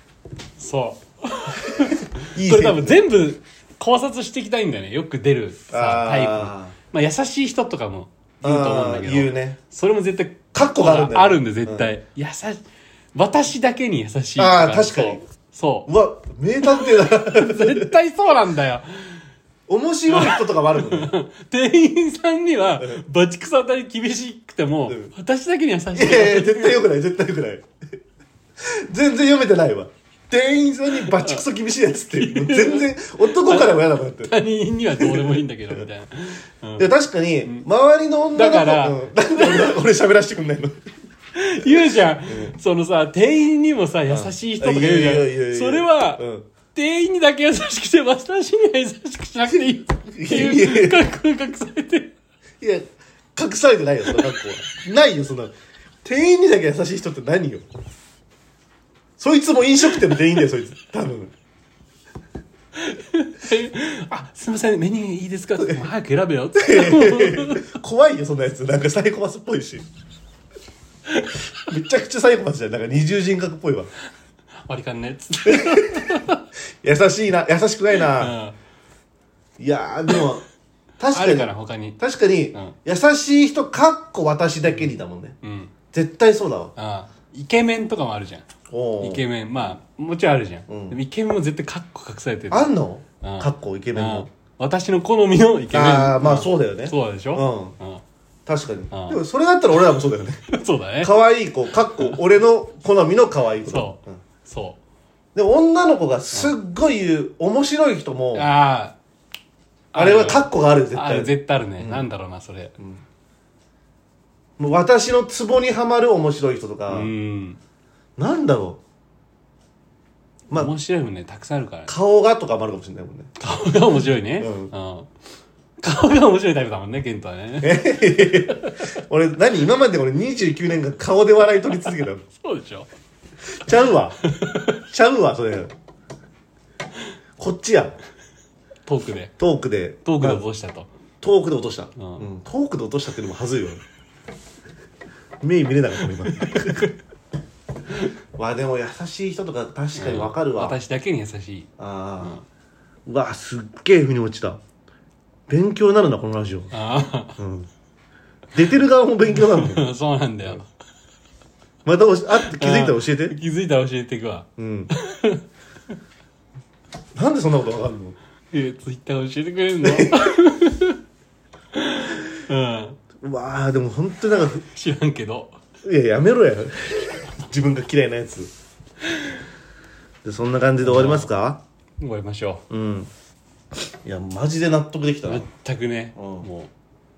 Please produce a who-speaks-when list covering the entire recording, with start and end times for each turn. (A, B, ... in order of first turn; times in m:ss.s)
0:00.6-0:12.6 A
0:01.7-0:03.0 B
0:05.7-0:06.8 B
0:08.4-0:09.6 B
0:10.5-0:11.9 B
0:13.1-0:15.9 A
0:14.4-0:15.2 B
0:15.9-0:17.9 B
0:16.6-0:18.9 A
0:19.7-0:21.1 B
0:20.1-0:26.8 A
0:24.9-0:25.1 B
0:25.9-0:27.7 B
0:28.6-0:34.4 B
0:31.0-0:31.4 A
0:32.1-0:36.9 A
0:35.0-0:35.8 B
0:36.8-0:40.8 B
0:38.4-0:39.8 A
0:41.3-0:46.2 A
0:42.3-0:42.6 B
0:44.1-0:46.5 B
0:46.7-0:52.1 A
0:50.1-0:51.1 B
0:52.6-0:57.6 B
0:54.1-0:54.4 A
0:59.2-1:01.3 B
1:02.8-1:07.8 A
1:06.6-1:09.9 B
1:11.1-1:11.4 A
1:11.6-1:13.9 B
1:14.7-1:16.4 A
1:15.5-1:16.3 B
1:16.8-1:18.4 B
1:18.0-1:18.6 A
1:19.6-1:20.4 B
1:21.0-1:25.4 B
1:21.1-1:22.0 A
1:25.4-1:25.7 A
1:25.9-1:26.7 B
1:26.8-1:28.5 A
1:28.7-1:29.2 B
1:29.0-1:32.7 A
1:30.7-1:31.0 B
1:32.5-1:34.3 B
1:33.2-1:38.0 A
1:35.7-1:37.8 B
1:38.5-1:40.5 B
1:38.9-1:39.2 A
1:40.5-1:41.2 A
1:41.0-1:44.2 B
1:43.7-1:44.8 A
1:45.4-1:48.5 B
1:48.3-1:49.0 A
1:49.9-1:52.8 A
1:49.9-1:52.0 B
1:54.6-1:57.1 B
1:56.9-1:57.6 A
1:58.2-1:58.8 B
2:00.5-2:02.0 A
2:01.9-2:03.3 B
2:03.4-2:05.1 A
2:04.4-2:04.7 B
2:05.8-2:08.8 A
2:07.6-2:12.2 B
2:12.3-2:12.9 A
2:13.5-2:14.2 B
2:14.2-2:14.8 A
2:14.8-2:15.7 B
2:17.4-2:18.0 B
2:18.9-2:19.4 A
2:19.4-2:20.4 B
2:20.0-2:20.9 A
2:21.2-2:23.8 B
2:22.0-2:22.3 A
2:25.4-2:26.9 B
2:26.4-2:26.9 A
2:28.4-2:30.8 B
2:30.0-2:32.4 A
2:31.8-2:32.4 B
2:33.1-2:34.6 B
2:35.5-2:36.7 B
2:36.7-2:37.4 A
2:37.4-2:37.7 B
2:38.5-2:39.8 B
2:39.3-2:40.7 A
2:41.8-2:43.4 B
2:42.4-2:45.4 A
2:44.6-2:44.9 B
2:47.2-2:48.2 B
2:48.5-2:51.0 A
2:49.8-2:50.2 B
2:51.7-2:53.0 A
2:53.2-2:54.6 B
2:54.6-2:55.6 A
2:55.8-2:58.5 B
3:00.2-3:01.6 B
3:00.8-3:01.3 A
3:02.0-3:02.6 A
3:02.7-3:03.1 B
3:04.0-3:05.5 B
3:05.3-3:06.7 A
3:06.2-3:06.5 B